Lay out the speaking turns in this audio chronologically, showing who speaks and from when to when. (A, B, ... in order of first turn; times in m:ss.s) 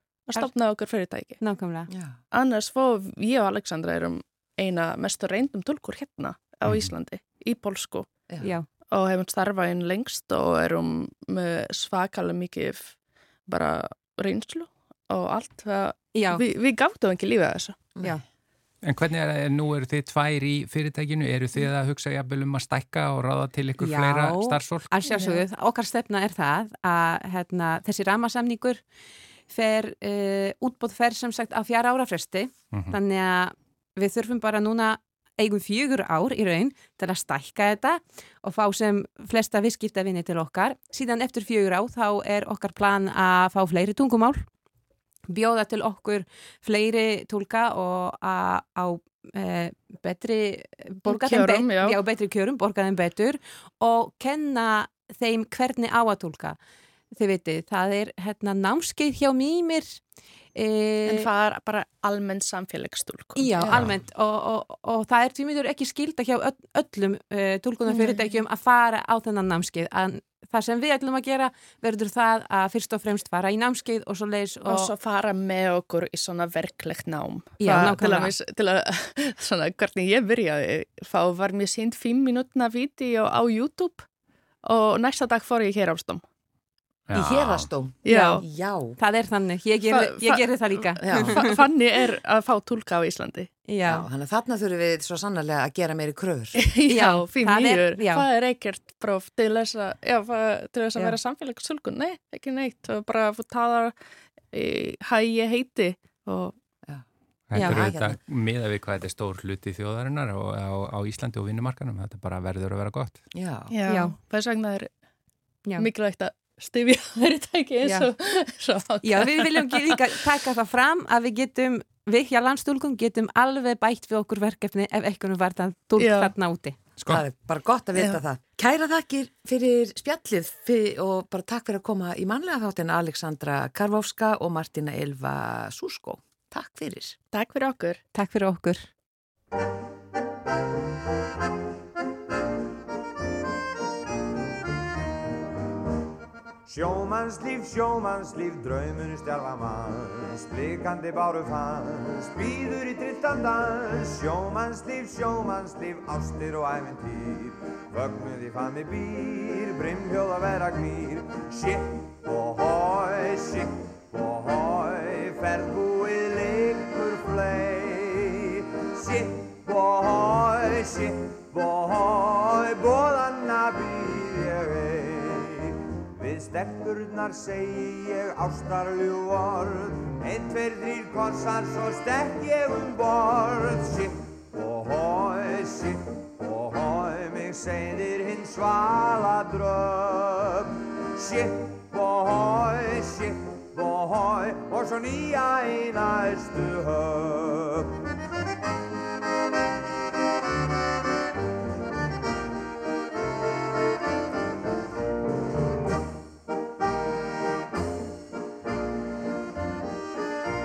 0:00.3-0:01.4 A
0:01.4-0:01.9 B
0:01.9-0:02.2 C
0:02.3-0:08.1 A
0:08.4-0:08.7 B
0:08.9-0:13.0 A
0:13.5-0:17.9 A
0:16.1-0:16.4 B
0:18.8-0:24.9 D
0:23.8-0:28.8 B
0:25.0-0:25.4 A
0:29.5-0:44.4 B
0:45.3-0:56.6 B
0:51.0-0:52.0 A
0:57.1-1:00.0 B
1:00.5-1:01.3 B
1:01.0-1:03.8 A
1:03.4-1:14.9 B
1:03.7-1:04.0 D
1:07.9-1:08.3 A
1:14.7-1:24.1 A
1:17.6-1:18.3 B
1:24.6-1:26.2 A
1:27.1-1:27.7 D
1:27.1-1:29.0 C
1:28.0-1:28.4 A
1:28.1-1:28.4 B
1:29.0-1:31.6 B
1:29.9-1:33.5 A
1:31.0-1:31.3 C
1:33.7-1:34.1 B
1:33.8-1:36.6 C
1:36.5-1:43.9 A
1:36.9-1:38.3 B
1:44.5-1:46.6 A
1:47.5-1:53.2 D
1:47.5-1:47.9 B
1:47.6-1:48.2 C
1:53.3-1:53.7 C
1:53.7-1:54.9 A
1:53.9-1:54.2 B
1:55.8-2:00.2 A
1:59.0-2:06.8 B
2:06.0-2:06.3 A
2:07.0-2:07.2 D
2:07.1-2:17.2 C
2:17.3-2:18.0 A
2:18.1-2:18.9 B
2:26.6-3:17.9 E